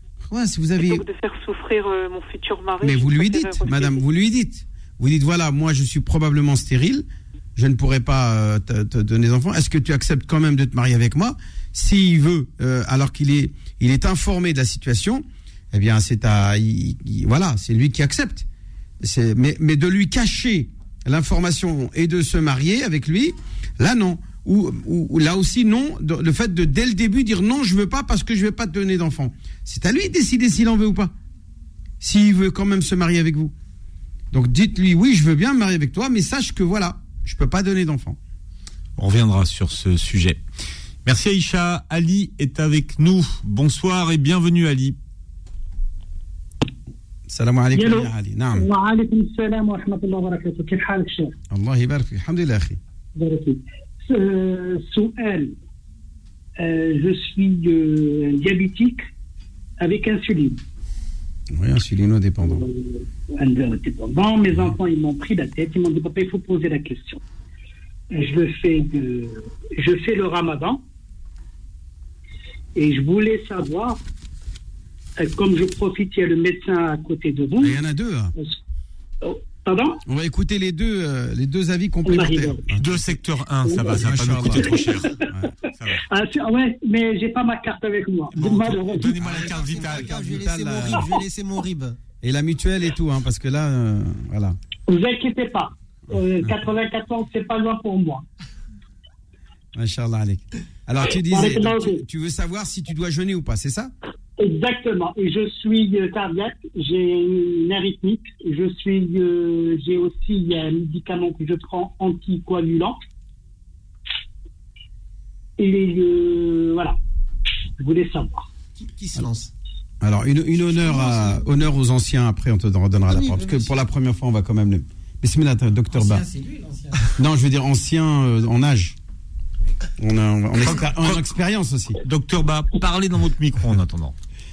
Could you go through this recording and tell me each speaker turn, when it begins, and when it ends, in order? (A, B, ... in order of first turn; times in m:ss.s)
0:00.3-0:01.0 A
0:00.8-0:04.0 B
0:02.8-0:07.0 A
0:07.6-0:18.4 A
0:19.0-0:31.1 A
0:32.0-0:33.5 A
0:34.3-0:38.2 A
0:39.0-0:40.4 C
0:41.0-0:45.0 C
0:47.3-0:48.6 A
0:47.7-0:51.3 D
0:51.5-0:52.8 A
0:53.1-0:55.5 D
0:56.6-0:59.1 D
0:59.8-1:00.6 D
1:01.5-1:02.6 A
1:02.4-1:07.2 D
1:08.1-1:10.8 D
1:12.7-1:14.0 D
1:15.2-1:17.8 D
1:17.6-1:18.3 A
1:19.2-1:20.0 D
1:20.1-1:23.2 A
1:22.0-1:22.6 D
1:22.8-1:25.2 C
1:23.6-1:25.1 D
1:23.9-1:25.4 A
1:25.9-1:29.2 D
1:28.3-1:30.3 C
1:29.2-1:31.2 A
1:29.2-1:32.0 E
1:32.2-1:34.6 A
1:34.9-1:38.2 D
1:36.1-1:36.7 A
1:39.7-1:43.9 A
1:41.0-1:42.0 D
1:44.4-1:53.0 D
1:55.6-1:57.0 D
1:57.8-1:58.5 D
1:58.8-1:59.5 E
2:00.0-2:06.2 A
2:00.6-2:01.5 F
2:03.1-2:03.7 F
2:05.9-2:07.2 F
2:07.2-2:09.0 A
2:10.0-2:12.0 A
2:10.6-2:11.3 C
2:12.0-2:14.1 C